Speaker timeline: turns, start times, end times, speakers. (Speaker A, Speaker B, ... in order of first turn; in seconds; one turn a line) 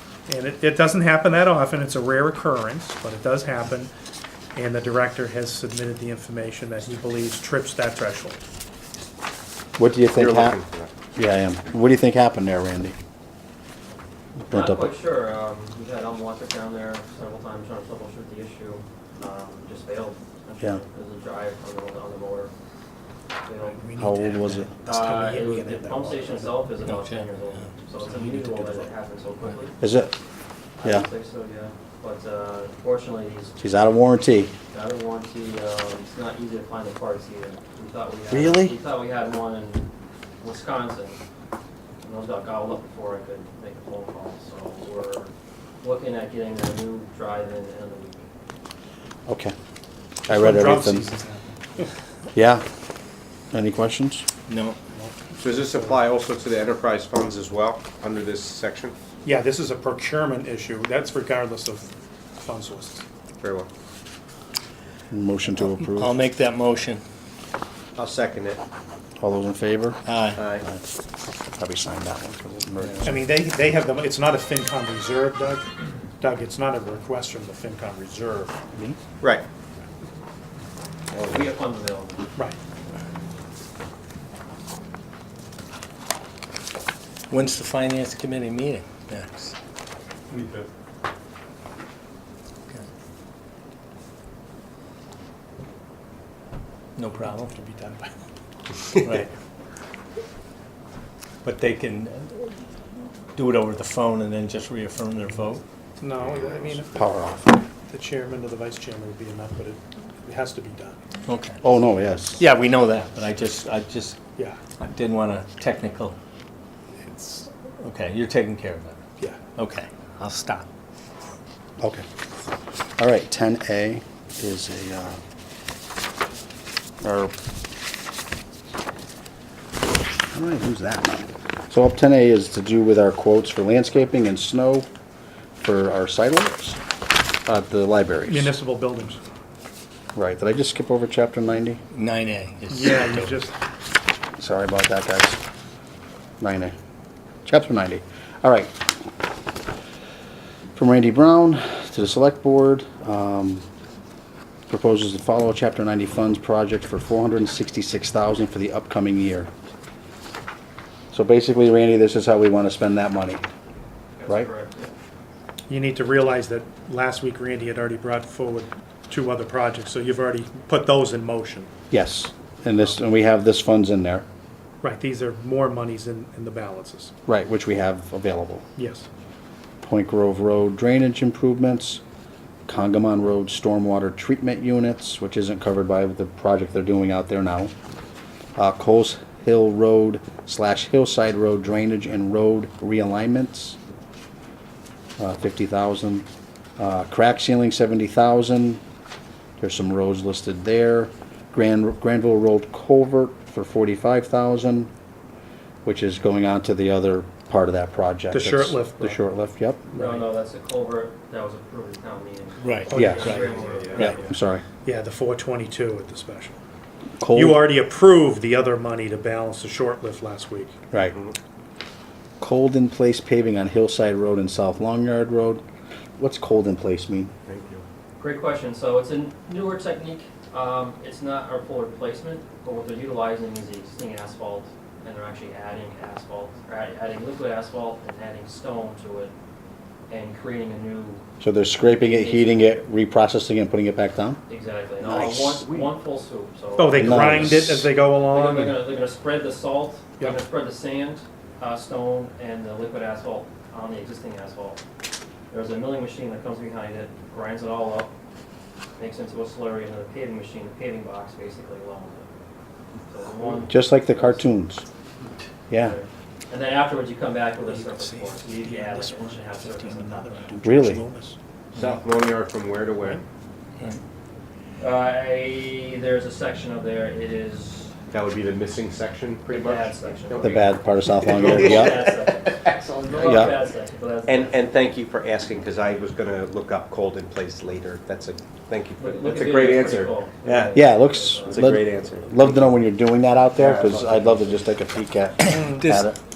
Speaker A: 0.3-3.9
Speaker A: 4.5-8.4
Speaker B: 9.8-10.6
Speaker C: 10.1-10.9
Speaker B: 11.2-12.9
Speaker B: 14.5-14.9
Speaker D: 14.5-22.5
Speaker D: 23.4-23.9
Speaker A: 23.6-26.6
Speaker B: 24.0-24.7
Speaker D: 24.8-29.8
Speaker E: 26.8-27.7
Speaker A: 28.0-28.9
Speaker B: 29.8-30.1
Speaker D: 30.8-33.6
Speaker B: 30.8-31.1
Speaker B: 33.6-34.5
Speaker D: 34.7-39.9
Speaker B: 38.3-38.7
Speaker D: 40.4-41.2
Speaker D: 42.0-45.3
Speaker D: 45.8-48.2
Speaker B: 49.3-49.5
Speaker B: 50.3-51.0
Speaker A: 50.3-51.9
Speaker B: 52.3-52.6
Speaker B: 53.5-54.2
Speaker E: 54.5-54.8
Speaker A: 54.9-56.0
Speaker C: 55.4-59.0
Speaker A: 59.2-63.0
Speaker C: 63.4-63.7
Speaker B: 65.1-66.1
Speaker E: 65.6-67.0
Speaker C: 68.0-68.6
Speaker B: 69.2-70.0
Speaker E: 70.0-70.4
Speaker C: 70.3-70.6
Speaker B: 70.6-70.9
Speaker B: 71.6-73.2
Speaker A: 73.0-75.7
Speaker A: 76.2-78.6
Speaker C: 81.1-81.5
Speaker D: 81.3-82.3
Speaker E: 87.3-89.5
Speaker C: 90.3-90.7
Speaker E: 97.0-97.5
Speaker A: 97.1-98.2
Speaker E: 101.4-102.5
Speaker E: 103.3-105.6
Speaker A: 106.0-107.1
Speaker B: 106.9-107.6
Speaker A: 107.9-111.0
Speaker E: 111.3-111.6
Speaker B: 111.6-112.4
Speaker E: 112.4-114.2
Speaker E: 114.8-116.2
Speaker A: 117.1-117.4
Speaker E: 117.8-119.0
Speaker E: 119.5-120.7
Speaker B: 123.0-125.2
Speaker B: 127.0-127.3
Speaker B: 130.3-134.9
Speaker B: 135.6-136.8
Speaker B: 137.4-138.5
Speaker A: 138.3-139.2
Speaker B: 140.1-141.8
Speaker E: 141.9-143.3
Speaker A: 142.7-143.5
Speaker B: 144.4-145.4
Speaker B: 146.4-146.7
Speaker B: 147.4-148.9
Speaker B: 150.7-153.6
Speaker B: 154.7-159.5
Speaker B: 161.1-163.4
Speaker D: 164.2-164.9
Speaker A: 165.7-171.7
Speaker B: 171.9-174.2
Speaker A: 174.8-177.1
Speaker B: 177.3-178.6
Speaker A: 178.8-179.1
Speaker B: 179.8-182.0
Speaker B: 182.7-187.7
Speaker B: 188.6-193.8
Speaker B: 195.2-196.3
Speaker B: 196.8-198.8
Speaker B: 199.6-204.9
Speaker B: 205.8-209.9
Speaker A: 208.3-209.2
Speaker A: 209.9-210.2
Speaker D: 210.0-214.3
Speaker E: 211.9-213.9
Speaker A: 212.9-213.3
Speaker B: 212.9-213.2
Speaker C: 213.2-214.3
Speaker B: 213.9-214.6
Speaker A: 214.8-216.6
Speaker B: 217.2-217.7
Speaker A: 217.3-220.8
Speaker C: 221.0-221.3
Speaker B: 222.4-225.6
Speaker B: 226.2-227.3
Speaker C: 227.5-227.8
Speaker D: 228.2-231.0
Speaker E: 229.5-229.8
Speaker E: 230.5-234.5
Speaker D: 234.4-239.3
Speaker D: 240.1-241.2
Speaker B: 241.4-244.4
Speaker D: 242.0-242.8
Speaker D: 244.5-247.3
Speaker B: 245.0-245.8
Speaker C: 245.1-245.8
Speaker A: 246.8-248.8
Speaker B: 246.9-247.9
Speaker E: 247.0-247.6
Speaker D: 248.3-254.8
Speaker D: 255.5-258.1
Speaker D: 259.0-262.2
Speaker E: 261.6-262.0
Speaker D: 263.1-264.4
Speaker B: 263.7-264.8
Speaker B: 265.7-266.0
Speaker D: 265.8-270.4
Speaker A: 267.6-271.4
Speaker B: 270.6-271.0
Speaker C: 271.7-273.2
Speaker D: 274.8-277.9
Speaker C: 278.1-283.5
Speaker D: 279.5-280.8
Speaker B: 280.4-282.1
Speaker D: 281.5-284.6
Speaker B: 283.2-283.5
Speaker C: 284.3-290.8
Speaker D: 289.0-291.6
Speaker E: 290.0-290.9
Speaker B: 290.7-296.2
Speaker C: 291.4-292.8
Speaker C: 293.5-294.7
Speaker A: 295.4-295.8
Speaker E: 295.6-296.1